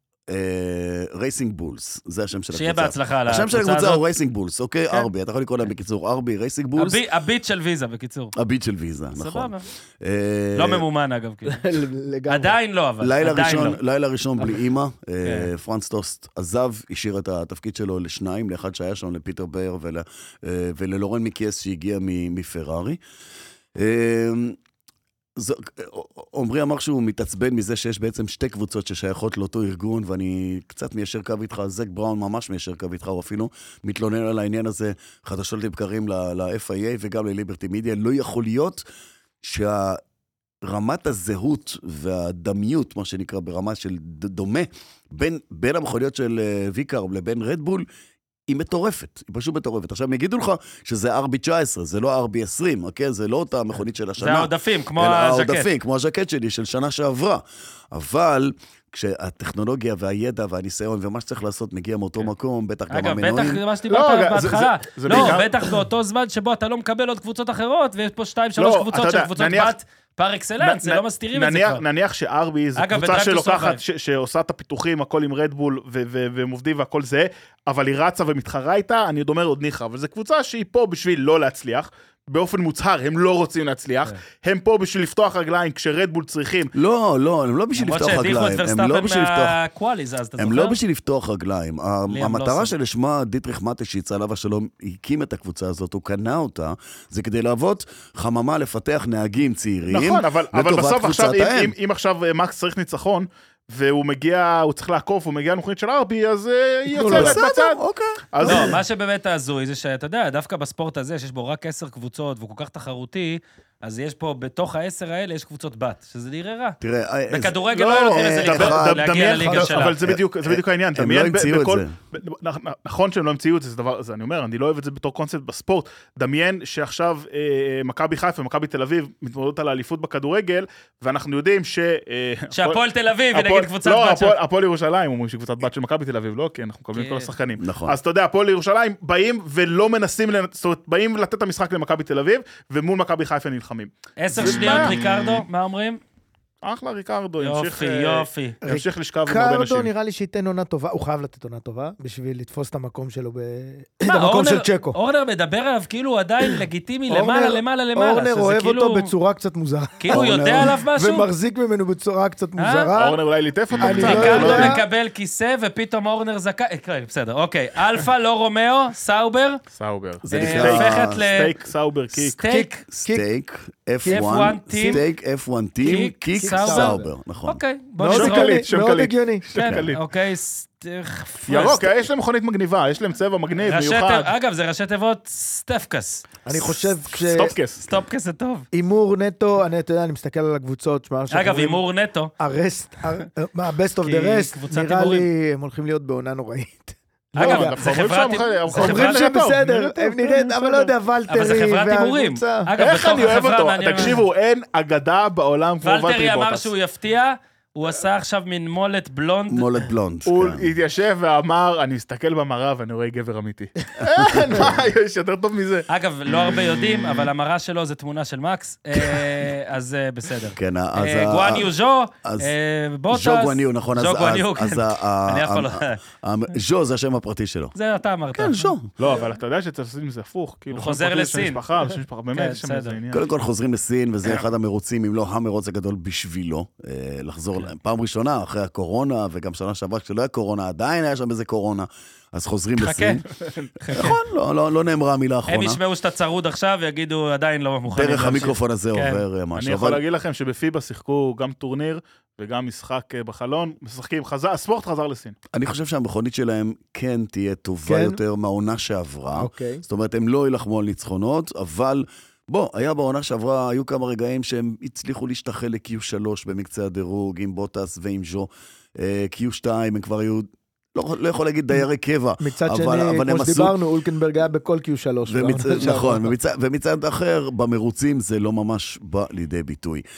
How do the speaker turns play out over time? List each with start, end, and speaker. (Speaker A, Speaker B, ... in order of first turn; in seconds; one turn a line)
Speaker A: 0.3-7.0
Speaker B: 2.5-4.0
Speaker B: 6.8-8.3
Speaker A: 8.4-10.8
Speaker B: 9.2-9.7
Speaker B: 10.6-11.6
Speaker C: 11.5-12.6
Speaker B: 12.3-13.8
Speaker A: 13.0-23.0
Speaker B: 15.2-15.5
Speaker A: 23.8-24.6
Speaker A: 25.4-38.8
Speaker A: 39.4-40.0
Speaker A: 40.6-47.9
Speaker A: 48.5-63.6
Speaker B: 54.2-55.7
Speaker B: 62.9-71.8
Speaker D: 63.9-65.8
Speaker D: 68.6-69.8
Speaker D: 70.6-86.7
Speaker B: 72.8-73.8
Speaker A: 86.7-89.6
Speaker B: 87.8-90.8
Speaker A: 90.4-101.7
Speaker B: 92.1-92.7
Speaker D: 99.9-107.8
Speaker C: 107.0-107.4
Speaker A: 107.0-108.7
Speaker D: 108.3-108.8
Speaker B: 108.4-116.8
Speaker A: 116.8-121.9
Speaker B: 117.3-120.0
Speaker D: 118.4-145.0
Speaker B: 132.5-134.4
Speaker B: 136.9-137.3
Speaker A: 137.6-138.0
Speaker B: 144.2-146.0
Speaker D: 146.6-149.9
Speaker B: 147.4-148.6
Speaker C: 148.6-155.0
Speaker B: 154.1-159.1
Speaker C: 157.1-163.2
Speaker B: 160.0-161.3
Speaker A: 160.1-160.8
Speaker B: 162.6-162.9
Speaker D: 162.9-164.8
Speaker C: 163.8-164.8
Speaker B: 163.9-169.6
Speaker D: 169.7-172.4
Speaker A: 170.2-171.2
Speaker B: 170.3-171.5
Speaker B: 172.3-172.8
Speaker C: 172.4-173.2
Speaker A: 172.9-177.6
Speaker C: 174.0-175.0
Speaker B: 174.1-175.0
Speaker B: 175.8-178.6
Speaker C: 176.3-177.1
Speaker C: 178.0-179.5
Speaker D: 178.1-180.0
Speaker B: 179.6-182.0
Speaker A: 179.6-179.9
Speaker D: 181.5-184.3
Speaker B: 183.6-186.7
Speaker C: 186.4-187.6
Speaker D: 187.1-187.8
Speaker B: 187.8-188.7
Speaker C: 188.7-191.8
Speaker B: 191.3-192.3
Speaker C: 192.4-197.8
Speaker B: 194.0-195.3
Speaker B: 197.4-199.3
Speaker D: 197.4-200.9
Speaker C: 198.7-202.7
Speaker B: 201.3-204.2
Speaker D: 202.8-206.7
Speaker B: 205.8-209.8
Speaker A: 209.5-210.7
Speaker D: 210.3-215.9
Speaker A: 214.0-214.7
Speaker B: 215.9-226.0
Speaker A: 220.6-221.7
Speaker A: 222.2-222.5
Speaker A: 223.1-227.8
Speaker B: 227.8-228.7
Speaker A: 228.3-228.9
Speaker D: 229.0-233.2
Speaker B: 230.7-231.6
Speaker B: 232.3-233.0
Speaker A: 233.1-243.2
Speaker B: 242.8-243.2
Speaker B: 243.8-244.2
Speaker A: 243.9-245.8
Speaker B: 245.5-249.2
Speaker A: 247.9-250.0
Speaker D: 249.6-255.4
Speaker A: 255.5-273.8
Speaker C: 257.9-258.2
Speaker C: 259.4-259.8
Speaker C: 272.4-276.3
Speaker A: 275.3-280.0